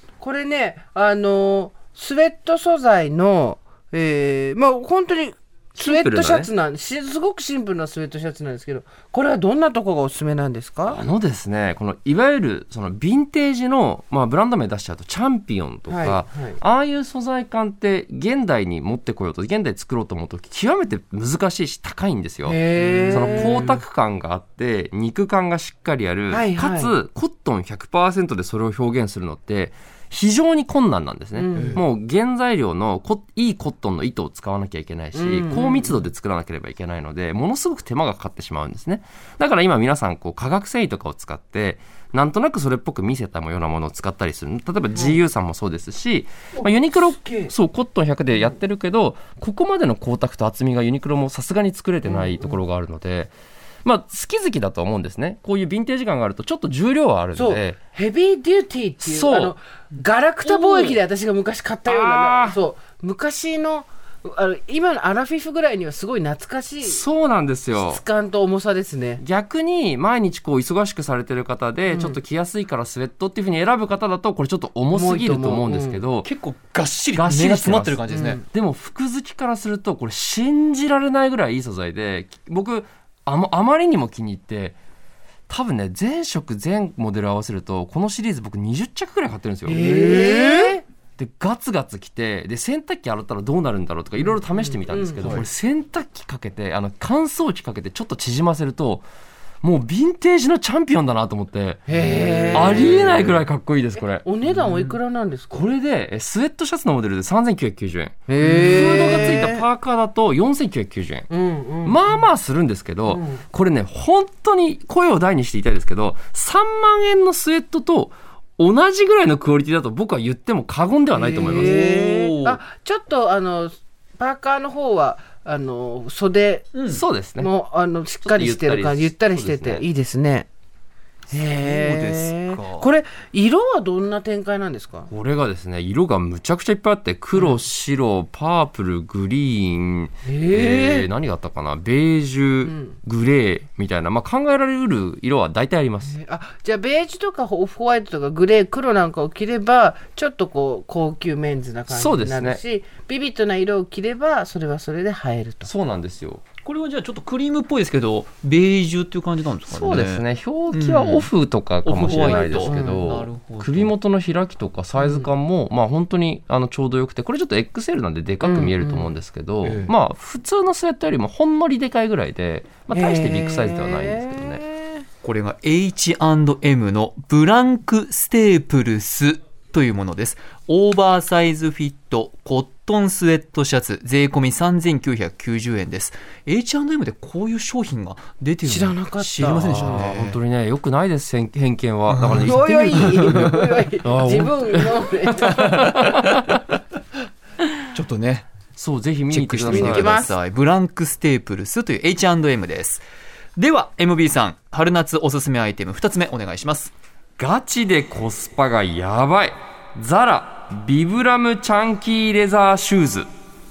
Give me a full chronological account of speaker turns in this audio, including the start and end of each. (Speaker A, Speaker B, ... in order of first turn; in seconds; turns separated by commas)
Speaker A: 0.2-11.1, Speaker B: 5.7-6.5, Speaker B: 10.9-22.6, Speaker A: 15.9-16.6, Speaker A: 22.4-23.8, Speaker C: 22.8-23.6, Speaker B: 23.1-53.3, Speaker A: 26.3-26.9, Speaker A: 31.4-31.8, Speaker C: 31.5-31.8, Speaker A: 35.1-36.1, Speaker A: 44.9-45.2, Speaker A: 46.6-47.5, Speaker A: 52.0-52.6, Speaker B: 53.8-57.8, Speaker A: 57.3-67.0, Speaker B: 59.0-59.5, Speaker B: 60.4-61.0, Speaker B: 61.9-62.6, Speaker B: 66.8-68.0, Speaker A: 67.7-69.2, Speaker B: 69.2-76.3, Speaker A: 71.9-72.2, Speaker A: 74.9-76.0, Speaker C: 76.2-78.4, Speaker B: 77.1-84.8, Speaker A: 78.1-78.4, Speaker B: 85.5-89.9, Speaker A: 89.7-90.8, Speaker C: 89.8-90.7, Speaker B: 91.2-99.0, Speaker A: 94.9-95.3, Speaker C: 95.2-95.5, Speaker B: 99.6-101.8, Speaker A: 101.9-103.3, Speaker C: 101.9-103.2, Speaker B: 102.5-104.2, Speaker A: 104.0-105.7, Speaker C: 104.5-104.9, Speaker B: 105.5-111.3, Speaker A: 108.3-109.7, Speaker C: 108.4-109.4, Speaker A: 111.3-112.2, Speaker B: 111.8-121.7, Speaker A: 113.1-113.4, Speaker A: 121.1-126.7, Speaker C: 121.5-122.6, Speaker C: 126.7-127.0, Speaker B: 126.9-127.5, Speaker A: 127.4-130.5, Speaker B: 128.2-129.8, Speaker A: 131.3-135.1, Speaker C: 131.3-132.9, Speaker B: 135.1-146.1, Speaker A: 137.3-137.6, Speaker A: 140.2-141.1, Speaker A: 142.6-142.9, Speaker A: 146.0-155.7, Speaker B: 151.9-152.6, Speaker B: 155.6-156.4, Speaker C: 156.6-161.3, Speaker B: 159.7-174.6, Speaker C: 161.8-163.9, Speaker A: 162.0-163.1, Speaker A: 164.9-165.3, Speaker A: 168.4-169.1, Speaker C: 169.6-169.9, Speaker A: 172.9-175.0, Speaker C: 175.2-190.4, Speaker A: 188.6-190.1, Speaker B: 189.5-193.5, Speaker C: 192.1-193.6, Speaker A: 192.4-195.7, Speaker B: 194.0-196.6, Speaker C: 195.6-196.1, Speaker C: 197.9-198.4, Speaker B: 198.8-200.1, Speaker C: 199.3-203.0, Speaker A: 199.7-200.3, Speaker C: 203.6-206.9, Speaker B: 207.4-213.3